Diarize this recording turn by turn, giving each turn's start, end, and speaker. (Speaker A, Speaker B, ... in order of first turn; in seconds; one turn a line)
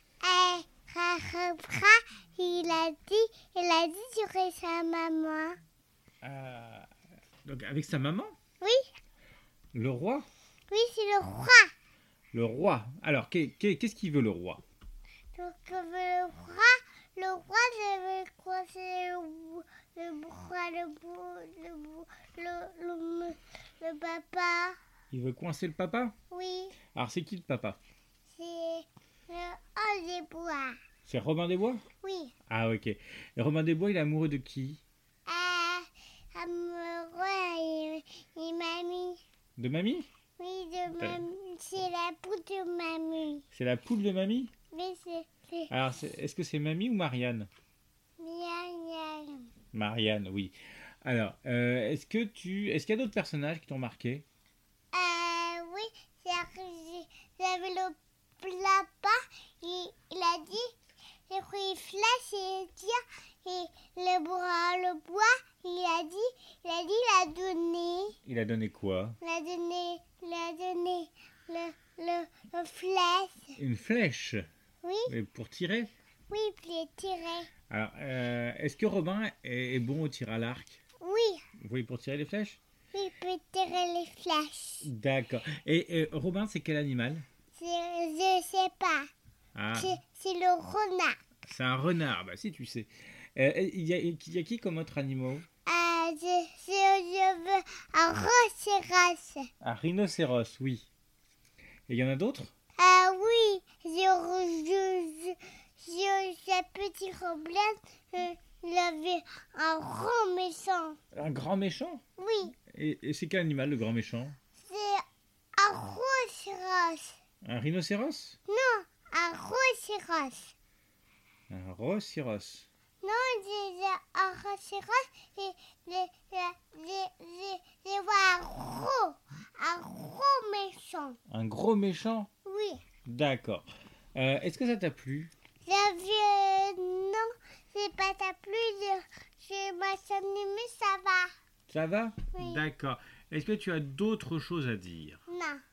Speaker A: 0.2-5.6
Speaker B: 6.2-6.9
Speaker B: 7.4-8.3
Speaker A: 8.6-8.9
Speaker B: 9.7-10.3
Speaker A: 10.7-11.7
Speaker B: 12.3-14.6
Speaker A: 15.3-24.8
Speaker B: 25.1-26.1
Speaker A: 26.3-26.8
Speaker B: 26.9-27.8
Speaker A: 28.3-30.8
Speaker B: 31.1-31.8
Speaker A: 32.0-32.3
Speaker B: 32.5-34.8
Speaker A: 35.3-39.2
Speaker B: 39.6-40.1
Speaker A: 40.4-43.4
Speaker B: 43.5-44.5
Speaker A: 44.7-45.7
Speaker B: 45.7-47.5
Speaker A: 48.2-49.5
Speaker B: 49.7-54.2
Speaker A: 54.9-60.7
Speaker A: 61.3-68.2
Speaker B: 68.2-69.2
Speaker A: 69.2-73.6
Speaker B: 73.6-74.5
Speaker A: 74.8-75.1
Speaker B: 75.1-75.9
Speaker A: 76.3-77.5
Speaker B: 77.7-80.8
Speaker A: 81.0-81.4
Speaker B: 81.6-82.6
Speaker A: 82.9-84.8
Speaker B: 84.8-87.2
Speaker A: 87.5-89.1
Speaker B: 89.5-90.0
Speaker A: 89.7-91.2
Speaker B: 91.5-95.5
Speaker A: 95.7-99.5
Speaker B: 99.6-100.9
Speaker B: 101.9-102.5
Speaker A: 102.8-111.0
Speaker B: 111.1-112.0
Speaker A: 112.2-112.5
Speaker B: 112.7-114.4
Speaker A: 114.6-115.0
Speaker A: 115.6-117.2
Speaker B: 117.4-118.4
Speaker A: 118.5-120.5
Speaker B: 121.5-122.7
Speaker A: 123.0-131.2
Speaker B: 131.3-132.3
Speaker A: 132.4-132.8
Speaker B: 133.1-135.3
Speaker A: 135.6-141.3
Speaker B: 141.7-145.2
Speaker A: 142.3-142.6
Speaker A: 145.3-145.6